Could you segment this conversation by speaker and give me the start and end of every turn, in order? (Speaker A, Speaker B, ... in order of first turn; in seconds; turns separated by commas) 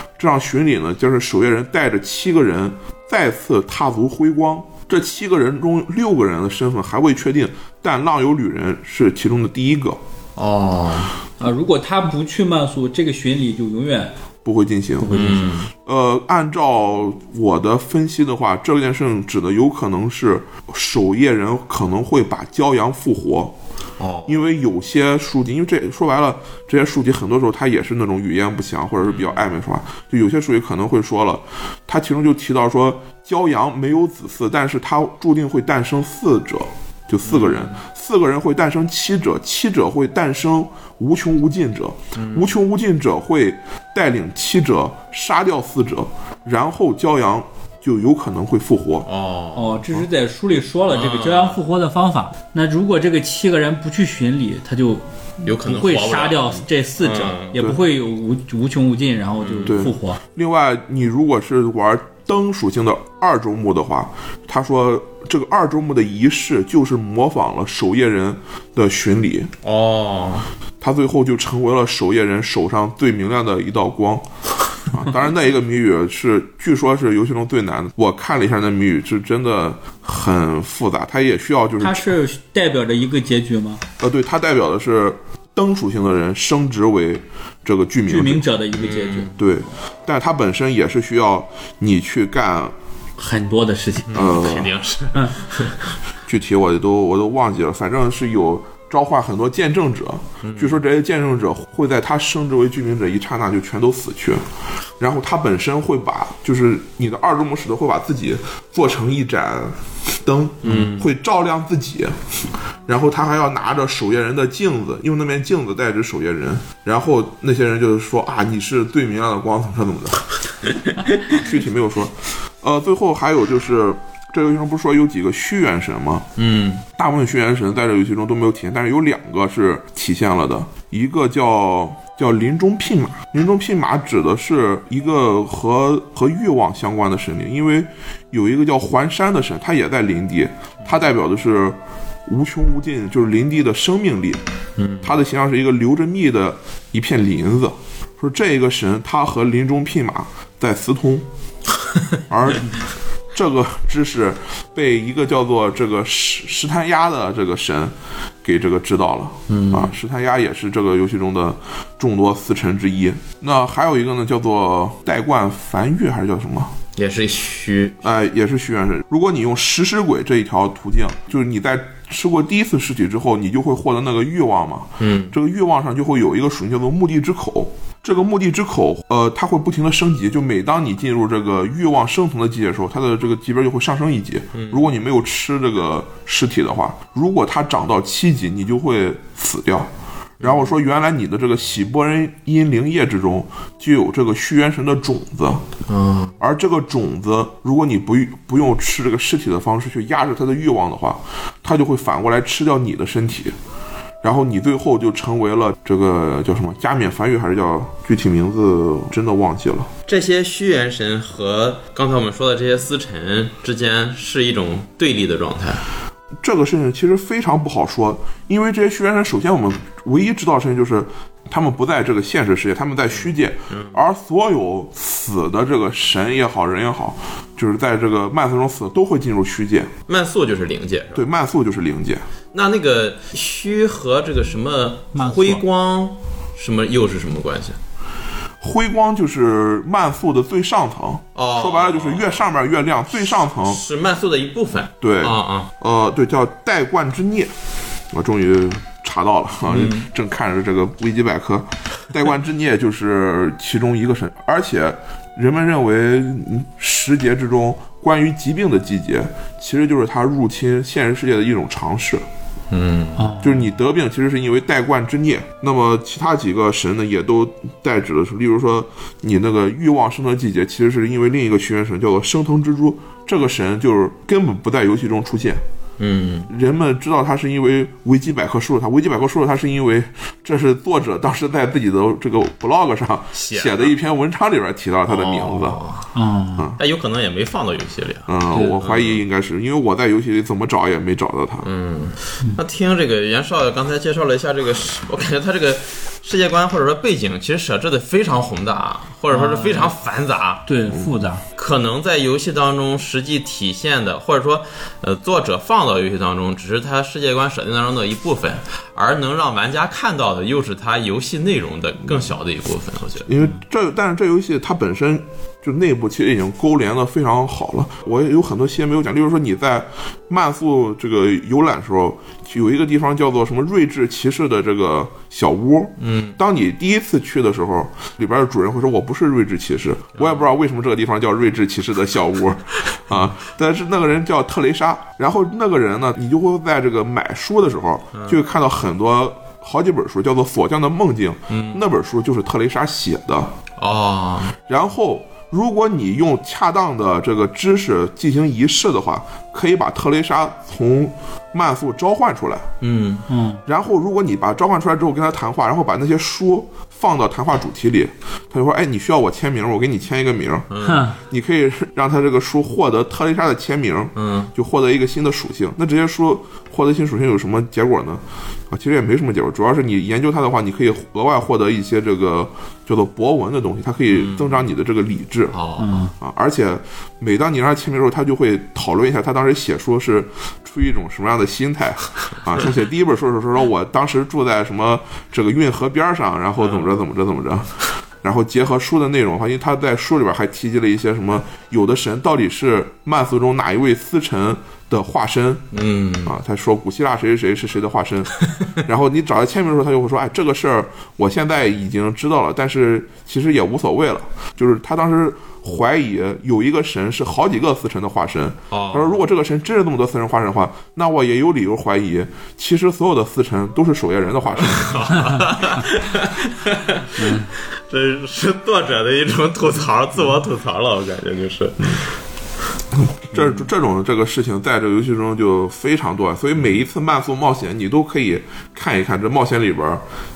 Speaker A: 0.2-10.0, Speaker B: 10.4-11.2, Speaker C: 11.4-14.1, Speaker A: 14.4-15.2, Speaker C: 15.0-15.5, Speaker B: 15.1-15.7, Speaker A: 15.7-23.5, Speaker B: 24.0-24.4, Speaker A: 24.3-49.1, Speaker B: 29.1-29.4, Speaker B: 37.2-37.8, Speaker B: 42.1-42.5, Speaker B: 49.0-49.8, Speaker C: 49.5-60.2, Speaker B: 50.9-51.6, Speaker B: 55.5-57.6, Speaker A: 57.6-57.8, Speaker B: 59.4-59.9, Speaker A: 59.7-69.5, Speaker B: 69.6-70.5, Speaker A: 70.8-74.3, Speaker A: 74.9-82.1, Speaker C: 81.8-83.8, Speaker A: 84.0-88.4, Speaker C: 88.1-89.3, Speaker B: 88.7-89.4, Speaker A: 89.4-92.7, Speaker C: 93.2-94.3, Speaker B: 94.1-95.8, Speaker A: 94.1-94.8, Speaker A: 96.3-104.4, Speaker B: 100.4-100.8, Speaker A: 105.0-120.3, Speaker B: 110.6-111.1, Speaker A: 121.3-126.3, Speaker B: 126.4-126.8, Speaker A: 127.0-144.4, Speaker B: 144.8-145.2, Speaker A: 145.0-151.3, Speaker A: 152.3-152.8, Speaker A: 153.3-166.7, Speaker B: 159.5-159.9, Speaker B: 167.0-168.1, Speaker A: 168.0-189.9, Speaker B: 175.0-175.3, Speaker B: 184.5-184.9, Speaker B: 190.4-190.8, Speaker A: 190.4-195.6, Speaker B: 195.9-196.3, Speaker A: 196.4-203.6, Speaker A: 204.2-209.9, Speaker B: 210.1-215.8, Speaker A: 216.4-229.9, Speaker B: 223.1-224.0, Speaker B: 230.1-231.2, Speaker A: 231.1-232.3, Speaker B: 232.5-237.8, Speaker C: 235.2-235.6, Speaker A: 238.6-243.8, Speaker B: 241.3-242.4, Speaker B: 243.5-245.7, Speaker A: 245.0-247.5, Speaker A: 248.1-262.2, Speaker B: 249.7-250.1, Speaker B: 262.7-263.3, Speaker C: 263.2-263.7, Speaker A: 263.4-275.6, Speaker B: 276.0-276.5, Speaker A: 276.5-285.8, Speaker B: 283.3-283.9, Speaker B: 285.1-286.1, Speaker C: 286.1-286.7, Speaker B: 286.8-289.2, Speaker A: 288.3-291.7, Speaker B: 291.6-300.6, Speaker C: 299.3-299.9, Speaker C: 300.7-301.4, Speaker B: 301.6-313.3, Speaker A: 313.3-343.5, Speaker B: 326.0-326.4, Speaker B: 330.2-330.5, Speaker B: 338.1-338.4, Speaker B: 341.5-341.8, Speaker B: 343.8-344.6, Speaker A: 344.7-352.7, Speaker B: 352.8-353.3, Speaker C: 353.3-353.6, Speaker A: 353.7-375.6, Speaker B: 360.7-361.1, Speaker C: 360.8-361.2, Speaker B: 364.2-364.5, Speaker B: 374.1-374.6, Speaker B: 375.5-375.9, Speaker C: 375.8-376.1, Speaker A: 376.2-395.7, Speaker B: 386.6-386.9, Speaker B: 395.7-396.4, Speaker A: 396.2-415.1, Speaker B: 408.7-409.2, Speaker B: 414.6-422.1, Speaker C: 417.2-417.5, Speaker A: 423.2-430.0